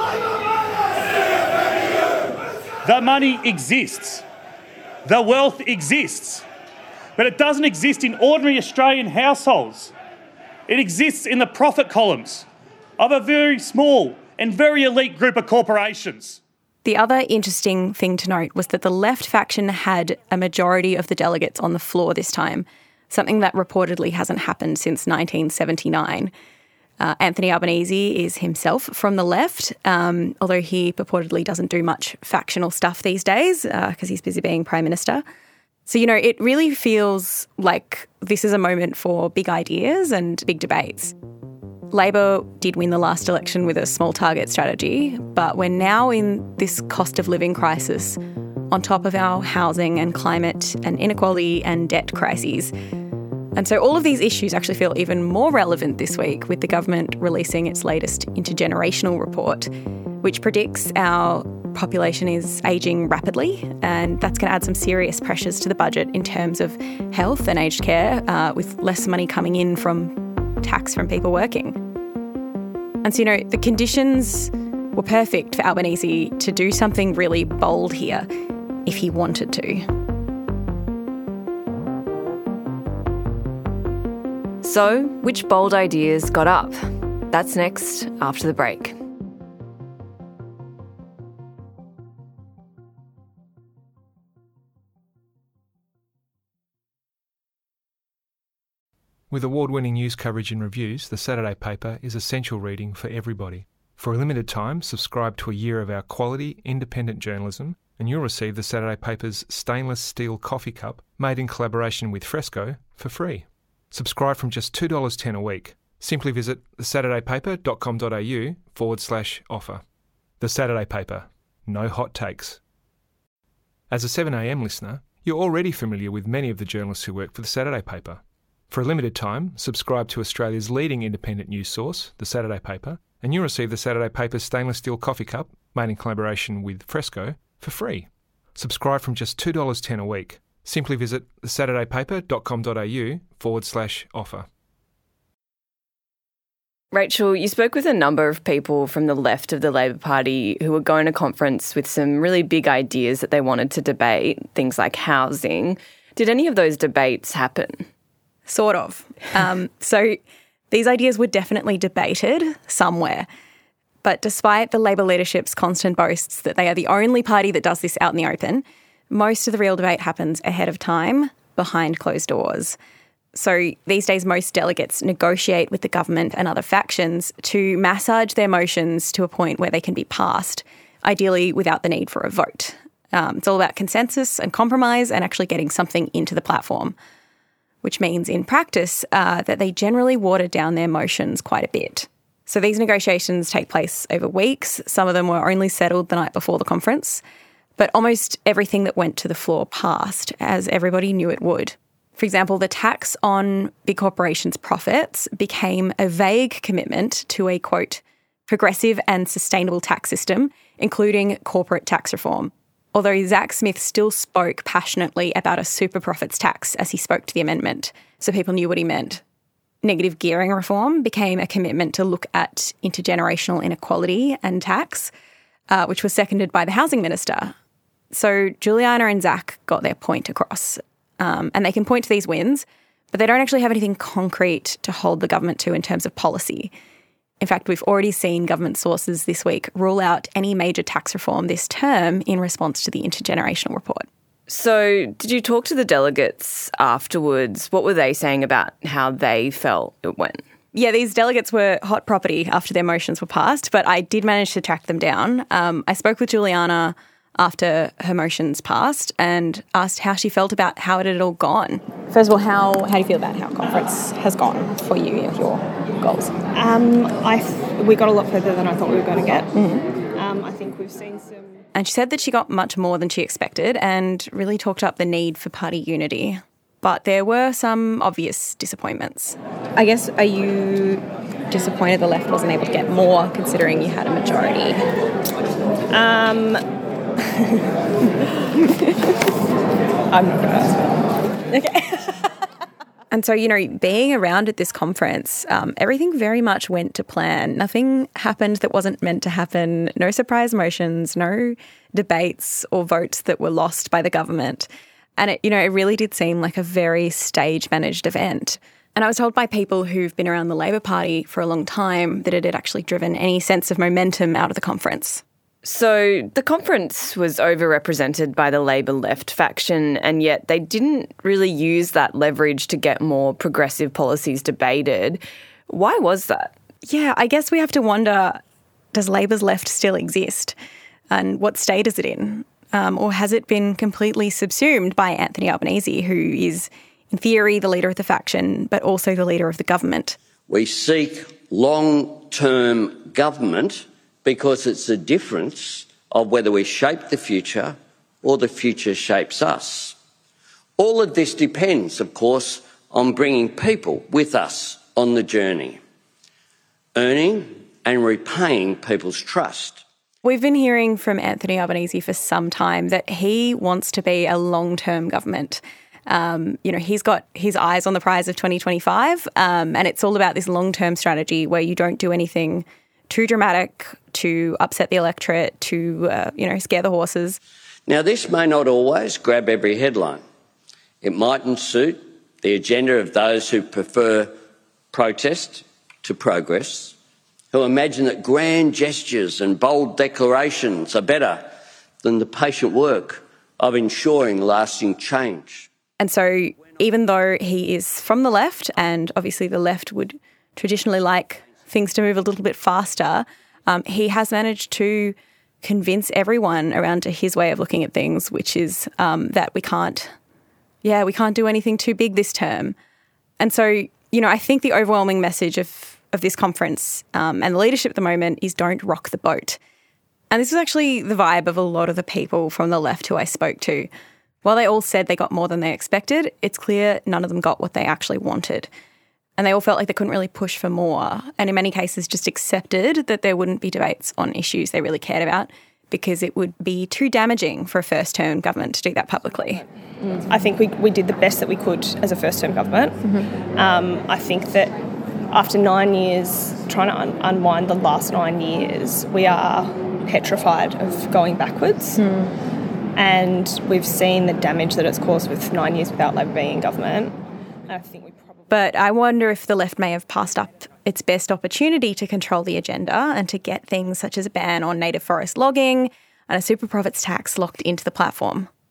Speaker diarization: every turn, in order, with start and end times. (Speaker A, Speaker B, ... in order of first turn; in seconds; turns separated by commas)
Speaker A: 2.9-4.2, Speaker A: 5.1-6.4, Speaker A: 7.2-9.9, Speaker A: 10.7-12.4, Speaker A: 13.0-16.4, Speaker B: 16.8-26.3, Speaker B: 27.0-35.2, Speaker B: 35.9-41.1, Speaker B: 41.9-48.2, Speaker B: 48.7-52.7, Speaker B: 53.5-71.8, Speaker B: 73.0-78.3, Speaker B: 78.8-79.9, Speaker C: 84.6-89.0, Speaker D: 99.3-119.8, Speaker D: 120.4-122.6, Speaker D: 123.9-144.5, Speaker C: 146.9-157.9, Speaker B: 158.5-160.2, Speaker B: 160.7-163.3, Speaker B: 164.0-172.8, Speaker B: 173.3-186.9, Speaker B: 187.8-197.2, Speaker B: 197.8-219.2, Speaker B: 219.8-225.1, Speaker B: 225.7-227.5, Speaker B: 228.1-236.7, Speaker B: 237.4-244.1, Speaker C: 244.5-250.4, Speaker B: 250.7-266.4, Speaker E: 266.5-269.5, Speaker B: 269.5-269.9, Speaker E: 270.1-271.4, Speaker B: 271.7-284.9, Speaker E: 285.9-286.6, Speaker E: 287.3-287.6, Speaker E: 290.1-292.1, Speaker B: 293.1-304.7, Speaker B: 305.2-315.2, Speaker C: 315.6-326.5, Speaker B: 326.9-328.4, Speaker B: 328.9-330.5, Speaker B: 331.1-340.2, Speaker F: 340.5-349.9, Speaker F: 350.8-355.8, Speaker F: 356.9-359.8, Speaker B: 360.2-377.4, Speaker F: 377.9-380.2, Speaker F: 381.0-384.3, Speaker F: 384.9-387.0, Speaker F: 387.5-391.5, Speaker F: 392.0-395.7, Speaker B: 396.0-410.1, Speaker B: 410.8-412.7, Speaker B: 413.4-419.6, Speaker B: 420.3-423.9, Speaker B: 424.4-428.7, Speaker B: 429.4-439.6, Speaker E: 440.3-442.9, Speaker E: 443.6-444.7, Speaker E: 445.3-452.0, Speaker B: 451.9-452.3, Speaker E: 452.9-457.1, Speaker E: 457.7-458.3, Speaker B: 458.5-468.5